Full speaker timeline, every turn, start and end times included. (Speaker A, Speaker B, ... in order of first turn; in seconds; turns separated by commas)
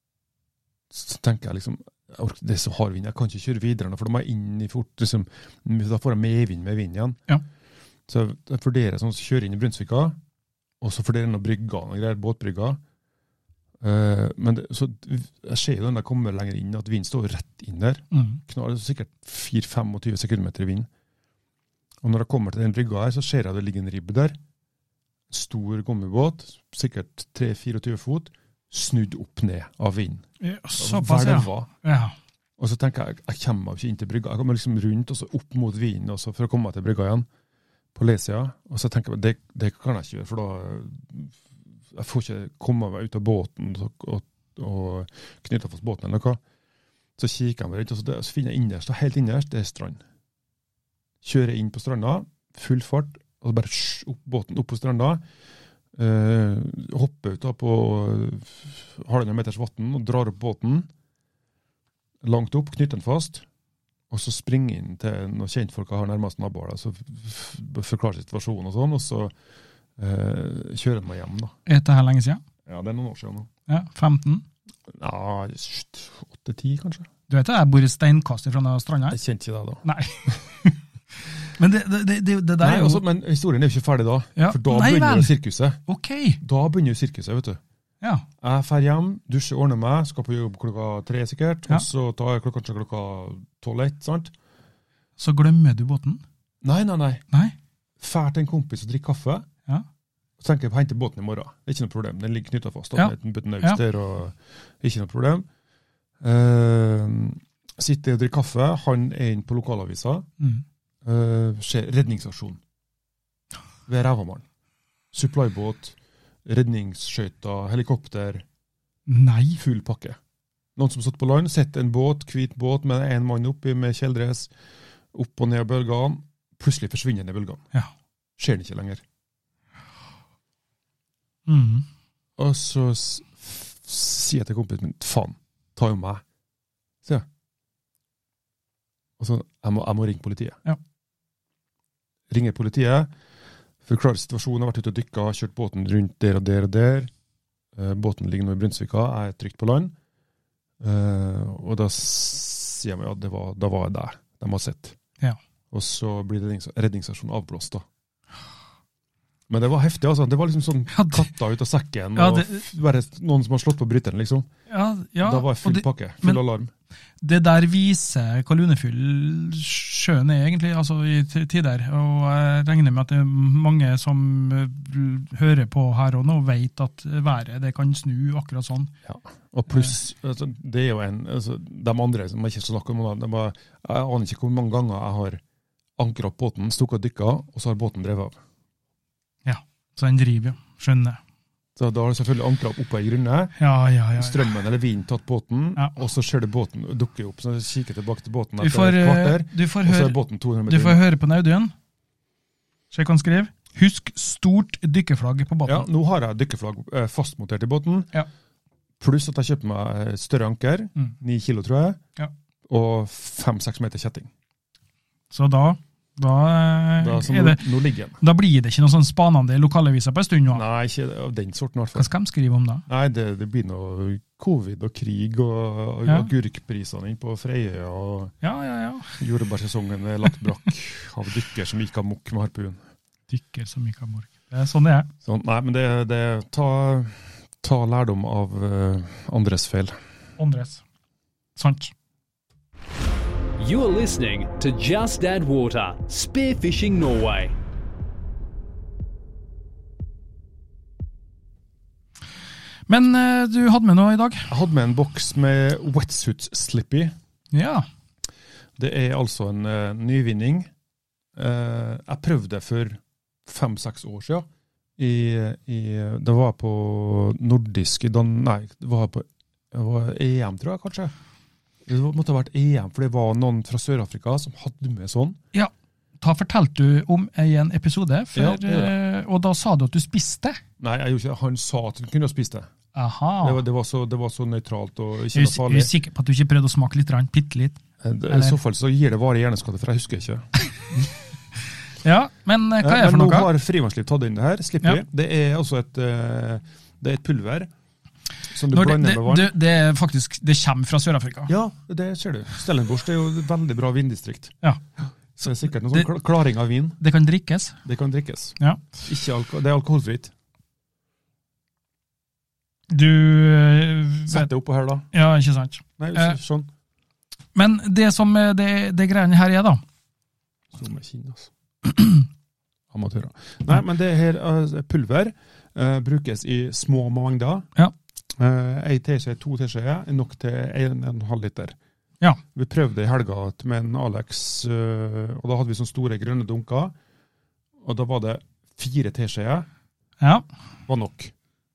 Speaker A: 0.9-7.2, Speaker A: 8.1-10.2, Speaker A: 10.8-12.8, Speaker A: 13.8-20.9, Speaker B: 18.1-18.4, Speaker A: 22.0-24.4, Speaker A: 25.3-30.2, Speaker B: 30.4-32.1, Speaker A: 30.8-31.7, Speaker A: 32.6-37.3, Speaker A: 38.0-41.4, Speaker A: 41.9-46.4, Speaker A: 47.2-50.0, Speaker A: 51.2-55.2, Speaker A: 55.9-60.9, Speaker A: 62.2-63.5, Speaker A: 64.1-69.3, Speaker A: 70.0-71.5, Speaker B: 71.7-72.4, Speaker A: 72.7-73.5, Speaker B: 73.7-74.4, Speaker A: 74.9-77.1, Speaker B: 77.3-79.2, Speaker A: 79.1-80.3, Speaker B: 79.8-80.8, Speaker B: 81.5-83.0, Speaker A: 82.6-85.8, Speaker B: 84.4-85.3, Speaker B: 85.9-86.4, Speaker A: 86.4-87.6, Speaker A: 88.4-94.3, Speaker B: 95.2-96.2, Speaker A: 96.6-97.2, Speaker A: 98.0-99.5, Speaker A: 100.4-105.5, Speaker B: 103.0-103.8, Speaker A: 106.2-110.3, Speaker A: 111.0-112.6, Speaker A: 113.9-114.5, Speaker A: 115.1-118.5, Speaker B: 119.1-119.6, Speaker A: 119.6-120.2, Speaker A: 120.8-124.5, Speaker A: 125.1-127.7, Speaker A: 128.4-129.0, Speaker B: 131.5-131.9, Speaker A: 132.4-136.2, Speaker A: 139.2-140.6, Speaker A: 142.3-143.1, Speaker A: 143.8-147.1, Speaker A: 147.8-149.9, Speaker A: 150.8-155.0, Speaker A: 155.7-157.9, Speaker A: 159.5-164.5, Speaker B: 160.9-161.3, Speaker B: 162.2-162.7, Speaker B: 164.7-166.4, Speaker A: 165.2-166.7, Speaker B: 167.2-178.9, Speaker A: 179.1-185.4, Speaker A: 186.0-188.4, Speaker B: 189.5-191.2, Speaker A: 191.8-193.6, Speaker B: 193.6-194.5, Speaker A: 194.2-201.0, Speaker B: 198.6-201.7, Speaker B: 202.9-205.9, Speaker A: 205.7-208.1, Speaker A: 209.0-212.0, Speaker A: 212.7-214.3, Speaker B: 215.3-217.6, Speaker A: 217.0-218.2, Speaker B: 218.2-220.6, Speaker A: 220.5-222.1, Speaker B: 221.9-222.8, Speaker A: 222.9-228.3, Speaker B: 228.4-229.2, Speaker A: 229.2-232.8, Speaker B: 233.3-235.1, Speaker A: 235.2-240.0, Speaker B: 240.4-240.8, Speaker B: 241.6-241.9, Speaker C: 243.6-247.6, Speaker B: 252.9-254.5, Speaker A: 254.5-257.1, Speaker B: 257.5-257.9, Speaker A: 258.8-260.7, Speaker A: 261.4-271.1, Speaker A: 271.9-275.4, Speaker B: 275.5-280.6, Speaker A: 278.3-278.9, Speaker A: 280.8-282.7, Speaker B: 282.9-283.6, Speaker A: 283.4-285.9, Speaker B: 285.3-288.6, Speaker A: 288.0-290.5, Speaker B: 292.0-293.5, Speaker A: 292.8-297.7, Speaker A: 298.5-299.5, Speaker B: 298.7-301.5, Speaker A: 301.5-304.6, Speaker A: 305.4-307.0, Speaker B: 305.5-306.1, Speaker B: 307.0-307.8, Speaker A: 307.8-310.3, Speaker B: 312.9-314.5, Speaker A: 314.3-315.1, Speaker B: 315.1-316.4, Speaker A: 316.0-316.7, Speaker B: 317.6-319.8, Speaker A: 320.7-321.5, Speaker B: 321.9-322.3, Speaker A: 322.9-327.7, Speaker A: 328.4-331.8, Speaker A: 332.5-336.9, Speaker A: 337.8-339.7, Speaker A: 340.9-341.3